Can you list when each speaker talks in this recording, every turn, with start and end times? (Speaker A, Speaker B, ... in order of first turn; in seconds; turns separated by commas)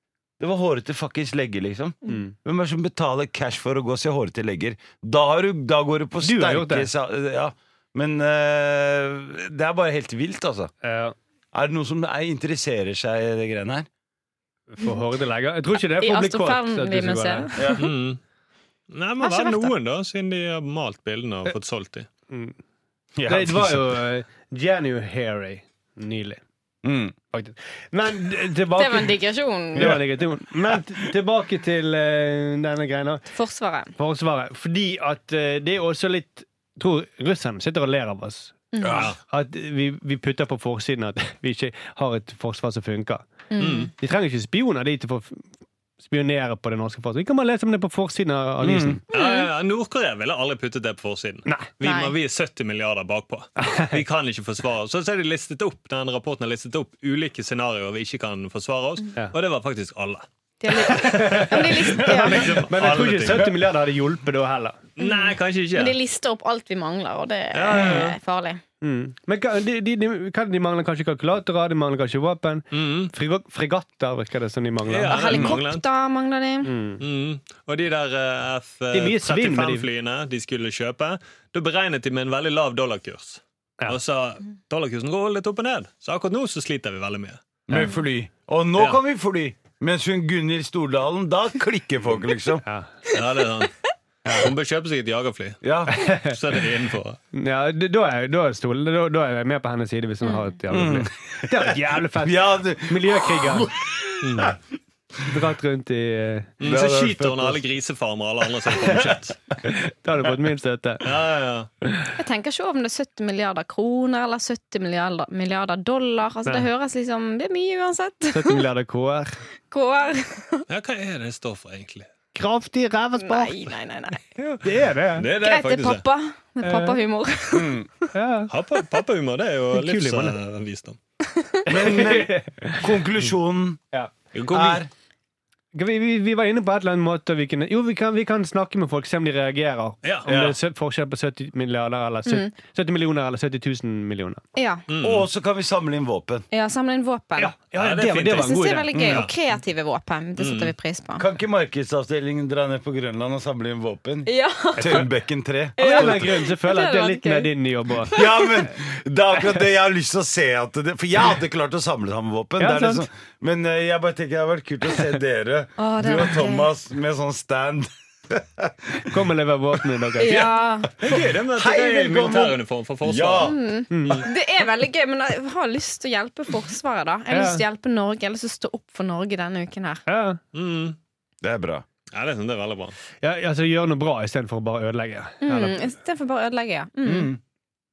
Speaker A: 0.4-10.7, Speaker B: 2.1-2.3, Speaker B: 6.2-6.9, Speaker B: 10.8-11.2, Speaker A: 11.5-13.9, Speaker B: 14.7-17.5, Speaker C: 16.0-17.9, Speaker A: 17.6-17.9, Speaker D: 17.8-18.2, Speaker D: 18.9-22.1, Speaker C: 19.2-19.7, Speaker B: 22.3-22.6, Speaker A: 23.1-24.0, Speaker B: 23.2-26.4, Speaker A: 26.8-27.1, Speaker B: 27.3-29.2, Speaker C: 28.8-30.0, Speaker B: 29.7-33.3, Speaker C: 33.3-33.9, Speaker B: 34.0-38.5, Speaker C: 38.7-39.1, Speaker A: 38.8-39.1, Speaker B: 39.3-43.3, Speaker C: 43.5-43.9, Speaker D: 43.6-43.9, Speaker B: 44.0-45.5, Speaker B: 46.0-49.0, Speaker A: 48.6-49.0, Speaker D: 49.1-63.6, Speaker C: 49.1-49.5, Speaker C: 51.8-52.1, Speaker B: 53.6-54.0, Speaker C: 60.6-62.6, Speaker B: 60.7-64.8, Speaker D: 65.0-66.0, Speaker C: 65.0-68.6, Speaker D: 67.5-68.2, Speaker B: 68.8-75.4, Speaker D: 72.7-73.1, Speaker D: 74.9-75.8, Speaker C: 75.1-76.7, Speaker B: 76.6-77.0, Speaker D: 77.0-87.4, Speaker B: 78.9-79.9, Speaker A: 87.7-92.6, Speaker B: 92.6-92.9, Speaker D: 93.1-93.7, Speaker B: 94.2-94.5, Speaker D: 94.3-97.2, Speaker A: 95.6-95.9, Speaker B: 95.9-96.3, Speaker B: 97.3-103.7, Speaker C: 100.2-100.5, Speaker A: 100.7-104.5, Speaker D: 104.2-104.5, Speaker B: 105.2-106.5, Speaker D: 106.6-109.4, Speaker A: 106.6-107.6, Speaker A: 108.7-109.2, Speaker B: 109.6-111.1, Speaker D: 111.0-111.7, Speaker C: 112.2-118.6, Speaker B: 118.3-119.4, Speaker C: 119.7-120.6, Speaker D: 120.7-122.1, Speaker B: 122.3-123.7, Speaker C: 123.2-124.2, Speaker B: 124.5-125.3, Speaker D: 125.1-126.0, Speaker C: 125.3-127.8, Speaker B: 126.6-127.0, Speaker A: 127.5-127.9, Speaker B: 128.1-128.5, Speaker D: 128.5-131.0, Speaker B: 129.7-130.3, Speaker C: 131.4-131.9, Speaker A: 131.7-133.8, Speaker B: 131.7-132.8, Speaker D: 134.3-134.8, Speaker A: 134.5-134.9, Speaker B: 135.7-144.4, Speaker A: 140.2-140.6, Speaker C: 142.2-142.5, Speaker C: 144.6-144.8, Speaker D: 144.9-145.3, Speaker A: 145.0-146.4, Speaker C: 146.5-147.5, Speaker B: 147.4-148.9, Speaker D: 147.8-149.3, Speaker C: 148.3-151.2, Speaker A: 148.9-149.3, Speaker D: 150.4-150.7, Speaker A: 151.2-156.3, Speaker C: 154.2-155.1, Speaker B: 154.8-155.0, Speaker C: 155.8-157.5, Speaker B: 155.8-158.2, Speaker C: 158.0-158.5, Speaker A: 158.1-169.1, Speaker B: 162.6-163.1, Speaker C: 165.8-166.7, Speaker B: 169.0-170.5, Speaker C: 170.2-170.9, Speaker D: 170.2-173.5, Speaker A: 171.0-173.6, Speaker C: 173.4-180.0, Speaker B: 173.9-174.3, Speaker B: 177.3-177.6, Speaker B: 180.1-180.4, Speaker D: 180.5-181.0, Speaker A: 181.4-181.8, Speaker D: 182.1-182.9, Speaker B: 183.2-185.8, Speaker C: 185.4-187.3, Speaker A: 187.0-187.4